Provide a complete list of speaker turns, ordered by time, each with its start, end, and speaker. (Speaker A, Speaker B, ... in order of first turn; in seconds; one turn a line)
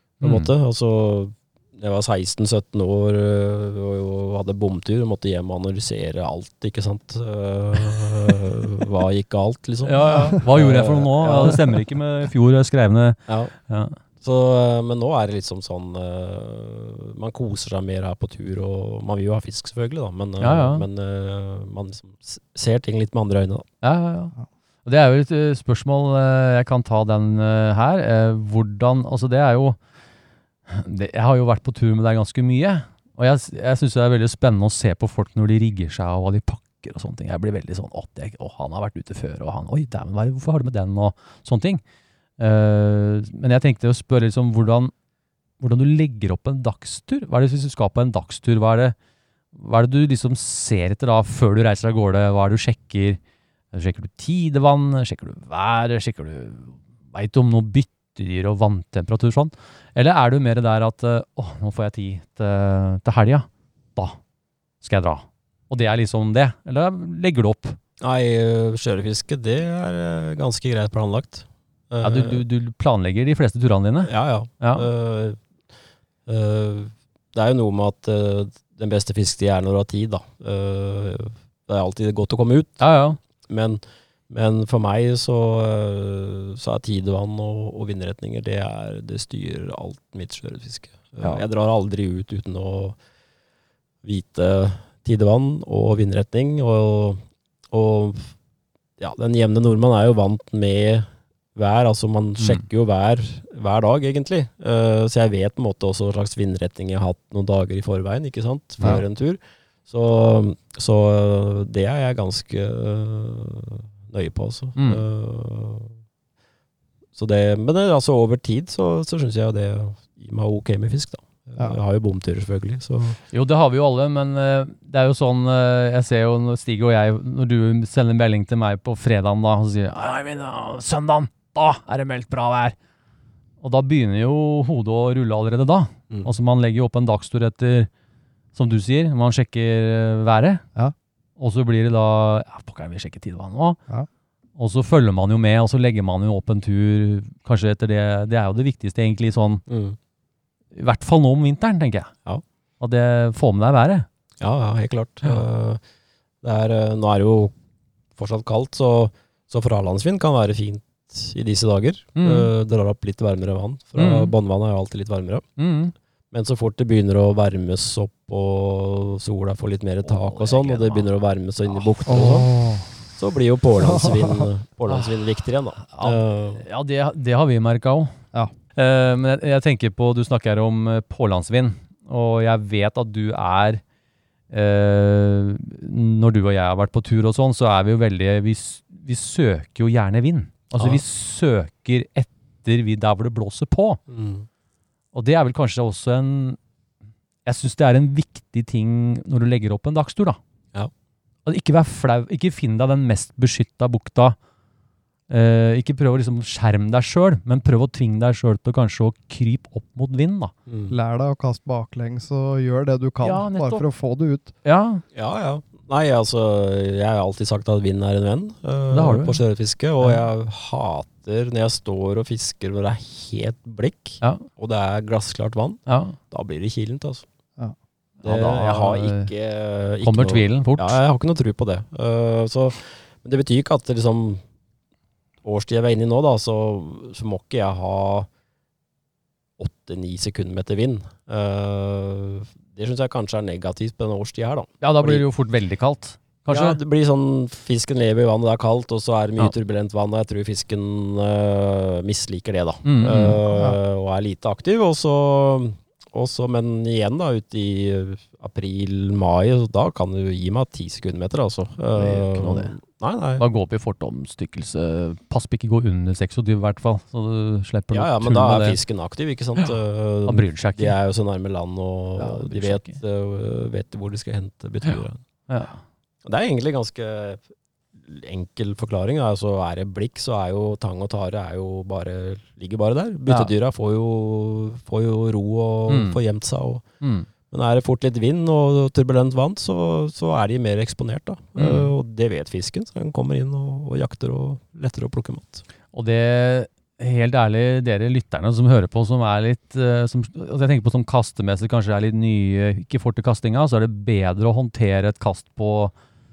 Speaker A: 0.2-0.5
Speaker B: 0.2-11.8
Speaker A: 9.8-14.0
Speaker C: 10.1-10.4
Speaker B: 13.3-13.5
Speaker B: 14.2-23.7
Speaker A: 20.4-20.9
Speaker A: 23.8-24.3
Speaker A: 24.9-29.8
Speaker A: 30.7-41.8
Speaker A: 42.4-44.9
Speaker A: 45.6-49.0
Speaker A: 49.5-53.2
Speaker A: 53.7-64.2
Speaker A: 64.8-67.8
Speaker B: 68.0-72.4
Speaker A: 72.0-74.9
Speaker B: 74.0-75.4
Speaker B: 76.3-82.8
Speaker A: 82.8-83.2
Speaker B: 83.5-93.0
Speaker B: 94.0-97.2
Speaker B: 97.7-98.3
Speaker B: 99.0-115.9
Speaker A: 114.8-115.0
Speaker B: 117.2-123.2
Speaker A: 123.3-132.8
Speaker A: 133.6-137.9
Speaker A: 138.6-140.6
Speaker A: 141.4-143.8
Speaker A: 144.6-149.6
Speaker B: 149.7-150.0
Speaker A: 150.7-152.1
Speaker A: 152.8-154.1
Speaker B: 154.4-155.8
Speaker B: 156.4-157.5
Speaker B: 158.2-165.4
Speaker A: 162.2-162.5
Speaker A: 164.0-164.3
Speaker A: 165.6-165.9
Speaker B: 166.3-172.5
Speaker A: 170.0-171.1
Speaker C: 172.1-172.9
Speaker B: 173.1-176.6
Speaker C: 173.8-174.5
Speaker A: 174.9-175.2
Speaker A: 175.8-178.1
Speaker A: 178.8-183.8
Speaker A: 184.5-194.0
Speaker B: 194.1-194.5
Speaker A: 195.1-196.6
Speaker A: 197.4-200.4
Speaker A: 201.5-204.4
Speaker A: 205.3-210.5
Speaker B: 210.7-210.9
Speaker C: 210.9-214.5
Speaker A: 213.2-213.8
Speaker A: 214.6-215.0
Speaker B: 215.2-227.2
Speaker A: 218.9-219.4
Speaker A: 225.9-226.2
Speaker A: 228.2-229.3
Speaker B: 228.2-234.4
Speaker A: 230.0-231.0
Speaker B: 235.4-238.3
Speaker B: 239.6-245.2
Speaker A: 244.8-246.8
Speaker B: 246.5-263.4
Speaker A: 252.8-253.4
Speaker C: 253.5-253.8
Speaker A: 261.9-262.7
Speaker A: 263.4-268.8
Speaker B: 267.9-275.2
Speaker A: 270.3-271.0
Speaker A: 272.2-273.0
Speaker A: 274.9-275.8
Speaker B: 276.2-277.4
Speaker B: 278.1-286.8
Speaker A: 285.9-286.2
Speaker A: 287.0-287.3
Speaker B: 287.5-295.6
Speaker A: 291.6-291.9
Speaker A: 295.9-305.9